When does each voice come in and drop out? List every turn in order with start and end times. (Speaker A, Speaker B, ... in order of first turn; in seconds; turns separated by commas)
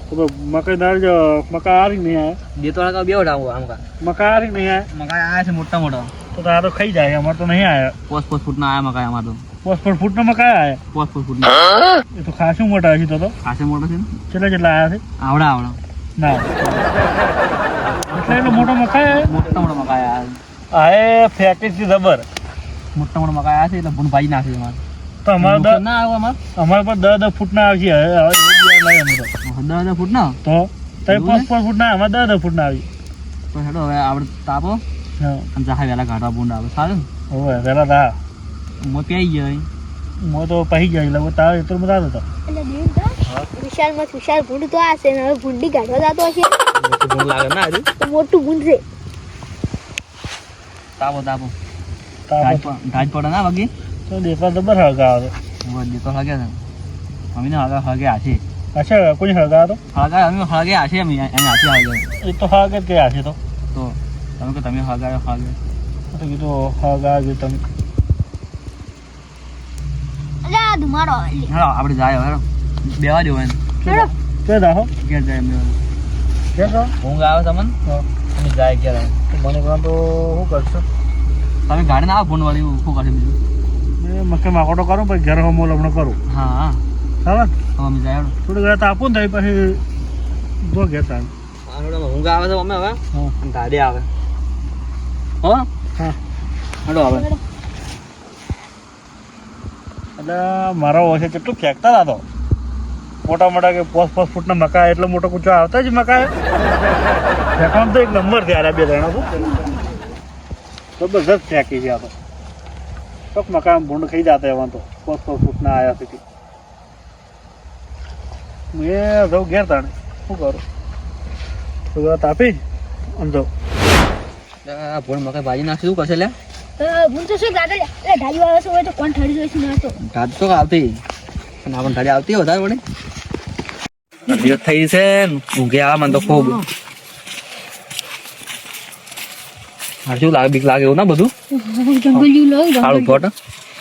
Speaker A: 0.1-2.4, Speaker B: 2.6-3.8, Speaker A: 4.0-4.9, Speaker B: 4.9-6.1, Speaker A: 6.3-7.9, Speaker B: 8.1-9.4, Speaker A: 9.6-10.8, Speaker B: 10.9-11.6, Speaker A: 12.2-13.3, Speaker B: 13.4-14.1, Speaker A: 14.3-15.0, Speaker B: 15.2-15.8, Speaker A: 16.2-16.5, Speaker B: 18.1-18.7, Speaker A: 18.1-19.3, Speaker B: 19.2-20.4, Speaker A: 20.7-22.2, Speaker B: 22.9-24.8, Speaker A: 25.2-25.8, Speaker B: 25.4-26.4, Speaker A: 26.6-29.3, Speaker B: 29.4-30.4, Speaker A: 30.4-32.9, Speaker B: 31.1-31.5, Speaker B: 33.5-34.8, Speaker A: 35.2-35.5, Speaker B: 35.5-37.1, Speaker A: 37.3-38.2, Speaker B: 38.8-39.7, Speaker A: 40.2-42.2, Speaker C: 42.5-46.6, Speaker B: 46.8-47.9, Speaker C: 48.0-48.8, Speaker B: 51.0-51.5, Speaker A: 52.3-52.7, Speaker B: 52.4-53.7, Speaker A: 54.1-55.3, Speaker B: 55.6-56.6, Speaker B: 57.3-58.4, Speaker A: 58.8-59.8, Speaker B: 59.9-62.1, Speaker A: 62.2-63.4, Speaker B: 63.7-65.6, Speaker A: 66.1-67.6, Speaker C: 70.4-71.5, Speaker B: 71.5-73.6, Speaker C: 73.8-74.1, Speaker A: 74.5-74.9, Speaker B: 75.0-75.8, Speaker A: 76.6-76.9, Speaker B: 77.0-77.8, Speaker B: 78.3-79.2, Speaker A: 79.3-80.8, Speaker B: 81.7-83.4, Speaker A: 84.0-86.2, Speaker B: 86.3-86.8, Speaker A: 87.2-87.5, Speaker B: 87.8-88.4, Speaker A: 88.5-89.8, Speaker A: 90.6-91.3, Speaker B: 91.7-94.1, Speaker B: 96.9-97.3, Speaker A: 100.2-102.2, Speaker A: 103.2-106.3, Speaker A: 107.6-109.5, Speaker A: 111.0-112.1, Speaker A: 113.3-116.2, Speaker A: 118.7-120.6, Speaker A: 121.9-122.6, Speaker A: 123.2-123.5, Speaker B: 124.7-126.4, Speaker C: 126.8-130.0, Speaker B: 130.0-131.0, Speaker B: 131.7-132.8, Speaker B: 134.3-136.6, Speaker B: 140.1-141.3, Speaker C: 141.5-143.2, Speaker B: 142.8-143.3